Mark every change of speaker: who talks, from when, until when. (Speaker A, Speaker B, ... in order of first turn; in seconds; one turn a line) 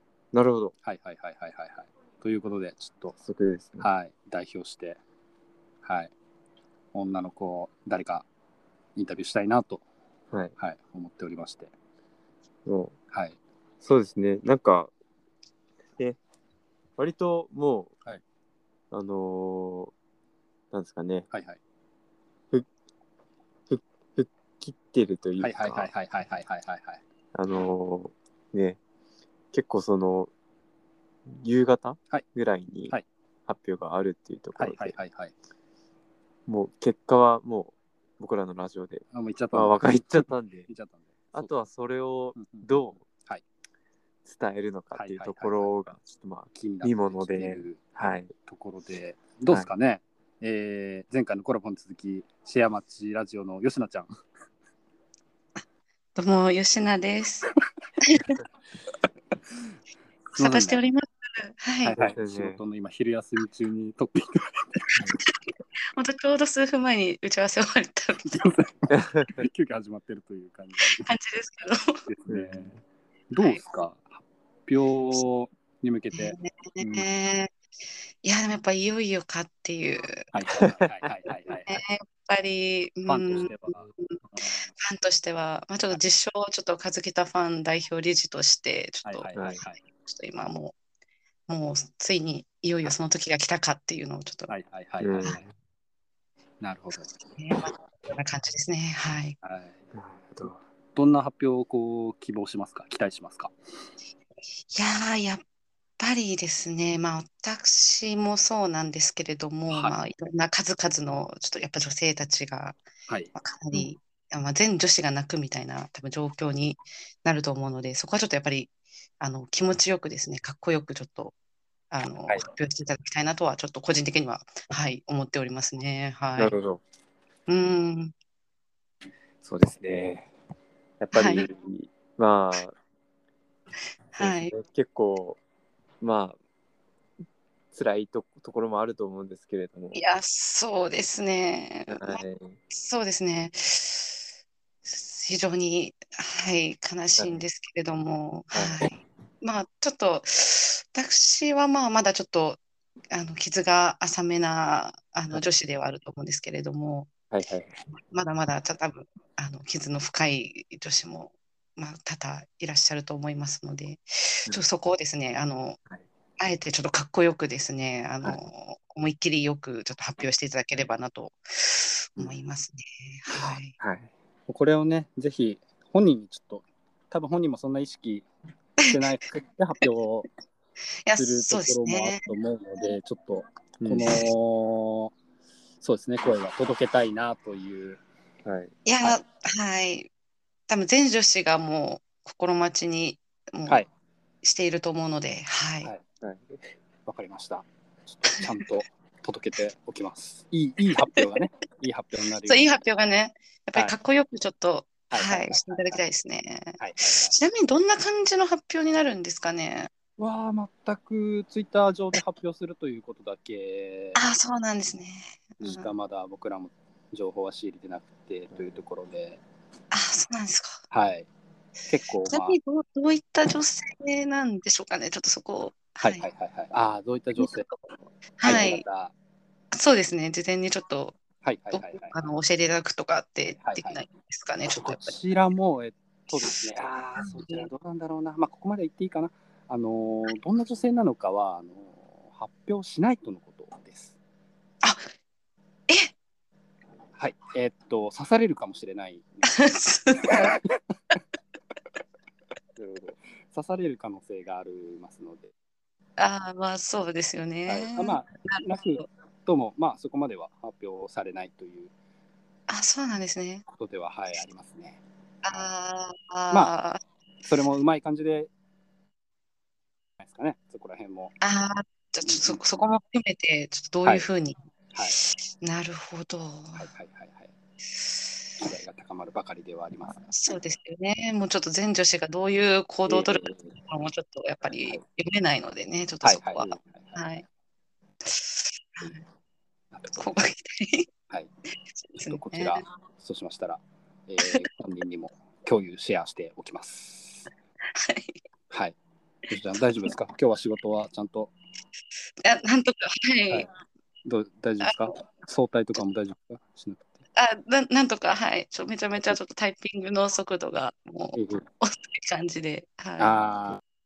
Speaker A: 0.3-0.7
Speaker B: 0.8-3.2
Speaker A: 3.2-3.9
Speaker B: 3.8-5.0
Speaker B: 5.8-6.1
Speaker B: 6.9-8.3
Speaker B: 9.0-9.8
Speaker B: 10.6-11.7
Speaker A: 12.7-12.9
Speaker B: 13.1-13.4
Speaker A: 13.8-14.9
Speaker A: 17.0-17.9
Speaker A: 18.9-19.9
Speaker A: 20.7-21.3
Speaker B: 21.3-21.6
Speaker A: 23.7-25.9
Speaker B: 25.4-27.0
Speaker A: 27.3-28.8
Speaker A: 29.5-30.3
Speaker A: 31.3-33.0
Speaker A: 33.5-35.0
Speaker B: 34.6-35.3
Speaker A: 36.5-40.7
Speaker B: 39.1-41.5
Speaker A: 41.3-43.0
Speaker B: 42.4-42.7
Speaker A: 44.2-48.3
Speaker B: 44.9-45.7
Speaker B: 46.5-54.1
Speaker C: 56.2-57.5
Speaker C: 58.0-58.4
Speaker B: 60.4-60.8
Speaker C: 60.4-62.0
Speaker B: 61.8-64.9
Speaker A: 62.0-62.6
Speaker C: 65.2-68.5
Speaker B: 68.3-71.1
Speaker A: 68.9-69.3
Speaker C: 70.9-72.0
Speaker B: 72.1-72.8
Speaker A: 72.3-72.7
Speaker B: 73.3-74.1
Speaker C: 73.4-73.7
Speaker B: 74.7-77.1
Speaker C: 76.1-77.5
Speaker C: 78.2-80.3
Speaker B: 80.3-81.8
Speaker C: 81.7-84.2
Speaker B: 83.1-84.8
Speaker C: 84.8-90.8
Speaker B: 89.0-89.8
Speaker A: 89.3-89.6
Speaker C: 91.5-94.5
Speaker B: 94.5-95.3
Speaker A: 95.0-95.5
Speaker B: 96.6-97.1
Speaker C: 97.4-99.4
Speaker B: 99.4-99.8
Speaker A: 99.9-100.6
Speaker B: 101.0-103.5
Speaker C: 104.7-105.4
Speaker C: 106.0-112.8
Speaker B: 109.7-110.0
Speaker B: 113.1-113.9
Speaker C: 113.3-121.3
Speaker C: 121.9-126.5
Speaker A: 126.4-126.8
Speaker C: 127.5-128.1
Speaker A: 129.4-130.3
Speaker A: 131.0-132.8
Speaker C: 131.1-131.5
Speaker C: 134.1-134.5
Speaker A: 134.2-135.4
Speaker A: 136.0-136.4
Speaker A: 137.7-140.1
Speaker C: 139.9-144.2
Speaker A: 141.9-142.6
Speaker C: 144.8-152.6
Speaker A: 147.2-147.4
Speaker A: 148.5-148.9
Speaker C: 153.1-157.1
Speaker A: 157.3-157.8
Speaker C: 157.9-165.8
Speaker C: 166.4-173.8
Speaker A: 173.8-174.1
Speaker B: 174.5-178.3
Speaker C: 178.8-179.2
Speaker B: 178.8-180.3
Speaker C: 181.1-182.2
Speaker B: 181.2-185.1
Speaker A: 183.8-184.1
Speaker B: 185.8-188.0
Speaker A: 188.4-188.7
Speaker C: 188.8-190.1
Speaker C: 190.7-193.8
Speaker C: 194.4-195.9
Speaker A: 196.2-196.6
Speaker B: 197.1-202.8
Speaker C: 202.4-209.9
Speaker B: 205.1-206.0
Speaker B: 206.8-207.3
Speaker B: 210.2-214.3
Speaker C: 214.2-215.9
Speaker B: 215.6-219.4
Speaker A: 218.5-218.8
Speaker C: 219.9-220.8
Speaker B: 220.9-221.3
Speaker B: 221.8-222.6
Speaker C: 222.2-226.3
Speaker B: 226.0-227.7
Speaker C: 227.4-227.8
Speaker C: 228.4-228.8
Speaker B: 228.4-229.1
Speaker C: 229.7-231.2
Speaker B: 231.4-232.2
Speaker C: 231.7-235.2
Speaker B: 233.6-234.0
Speaker B: 234.7-244.2
Speaker C: 237.2-237.7
Speaker C: 244.8-245.1
Speaker B: 247.2-249.5
Speaker C: 249.4-250.6
Speaker A: 252.8-253.2
Speaker B: 253.5-255.5
Speaker C: 256.2-259.0
Speaker B: 257.7-261.9
Speaker C: 262.7-263.6
Speaker B: 263.7-265.7
Speaker C: 265.4-267.0
Speaker B: 267.5-268.5
Speaker B: 270.2-271.4
Speaker C: 271.4-274.6
Speaker B: 272.2-272.6
Speaker C: 275.2-276.9
Speaker B: 276.8-277.5
Speaker B: 278.6-280.3
Speaker C: 280.1-287.4
Speaker B: 283.1-283.8
Speaker B: 286.2-287.4
Speaker C: 288.3-289.2
Speaker B: 289.9-290.3
Speaker C: 290.1-291.1
Speaker C: 292.0-292.9
Speaker B: 292.2-297.5
Speaker C: 298.0-298.4
Speaker B: 298.7-299.0
Speaker B: 299.5-301.5
Speaker C: 302.4-303.7
Speaker B: 304.2-307.1
Speaker C: 304.8-305.2
Speaker C: 307.4-313.6
Speaker B: 311.3-311.6
Speaker B: 313.2-313.8